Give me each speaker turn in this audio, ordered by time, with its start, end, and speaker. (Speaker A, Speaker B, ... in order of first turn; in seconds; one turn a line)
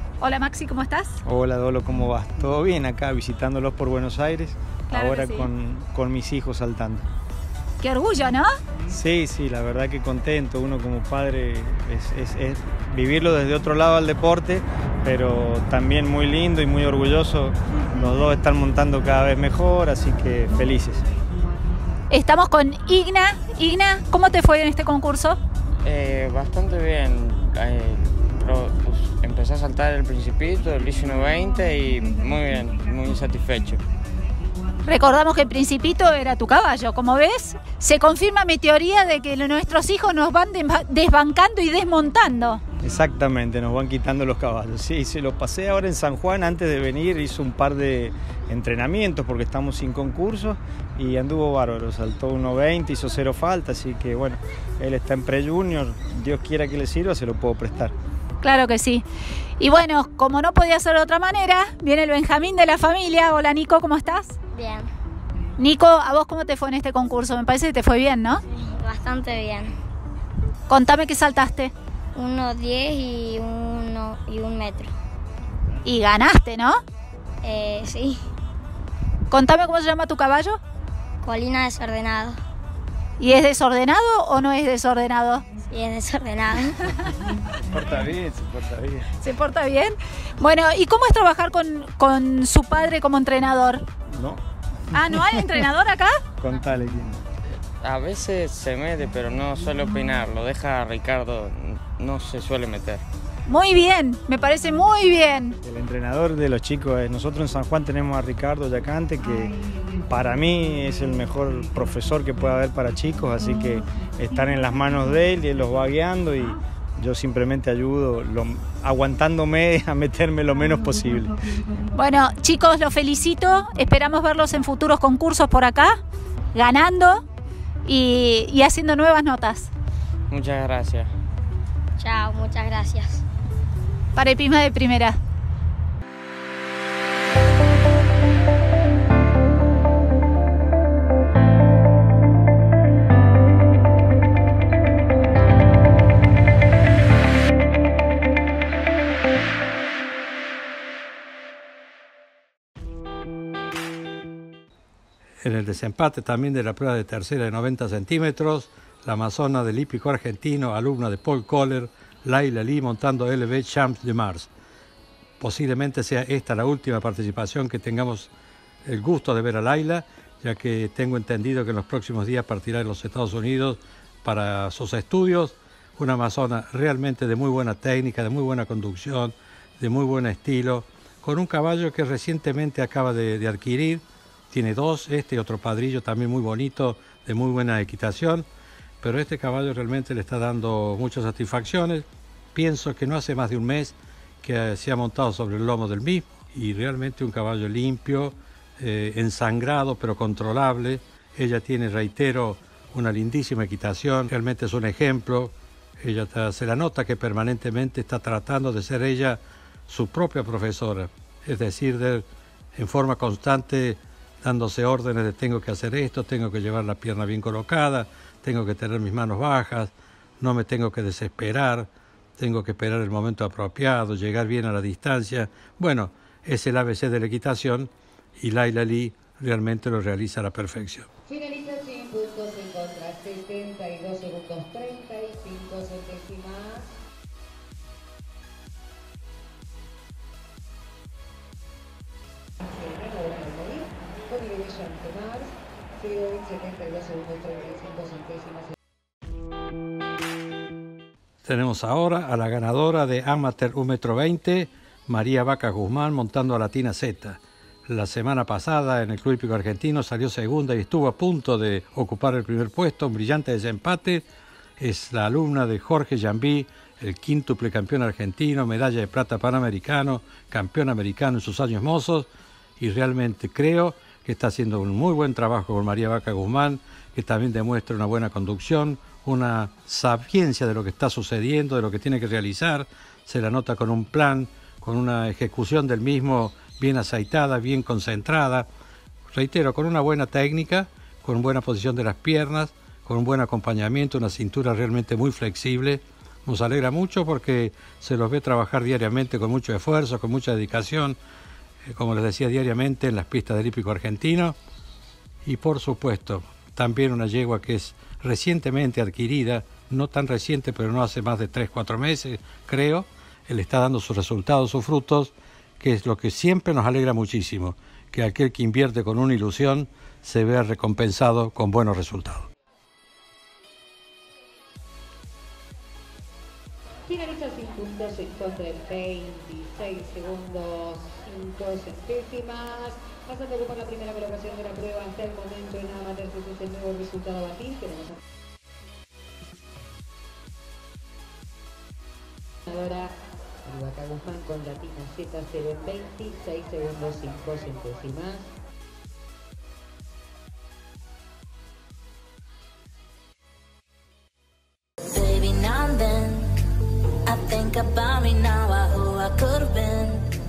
Speaker A: 0.2-1.2
Speaker B: 1.3-7.0
Speaker A: 4.9-5.5
Speaker A: 7.8-8.5
Speaker B: 8.9-21.0
Speaker A: 22.1-25.4
Speaker C: 25.8-33.8
Speaker A: 34.9-42.6
Speaker B: 42.8-57.9
Speaker A: 58.4-59.0
Speaker A: 59.6-64.4
Speaker D: 64.5-64.9
Speaker A: 65.6-68.4
Speaker D: 68.6-69.7
Speaker A: 70.7-71.7
Speaker D: 72.2-74.9
Speaker A: 75.8-76.8
Speaker D: 77.4-78.2
Speaker A: 79.3-80.6
Speaker D: 81.2-82.4
Speaker A: 83.2-85.4
Speaker D: 85.7-86.9
Speaker B: 87.7-89.1
Speaker A: 89.2-93.8
Speaker B: 94.1-94.4
Speaker A: 94.9-96.2
Speaker B: 95.1-95.4
Speaker B: 96.4-97.2
Speaker C: 97.8-103.0
Speaker A: 103.5-105.6
Speaker B: 105.6-121.4
Speaker A: 122.0-126.0
Speaker A: 126.5-127.2
Speaker A: 127.8-129.7
Speaker C: 130.3-131.1
Speaker D: 132.0-133.2
Speaker A: 134.2-135.2
Speaker E: 155.4-164.5
Speaker E: 165.4-168.3
Speaker E: 168.8-188.5
Speaker E: 189.0-231.1
Speaker F: 231.3-236.9
Speaker F: 242.6-248.7
Speaker E: 251.4-264.2
Speaker E: 264.8-272.3
Speaker E: 272.8-288.7
Speaker E: 289.3-301.2
Speaker E: 301.9-304.6
Speaker E: 305.4-322.5
Speaker F: 327.1-338.2
Speaker F: 342.7-343.1
Speaker F: 343.6-348.5
Speaker G: 355.1-356.5
Speaker G: 357.3-360.3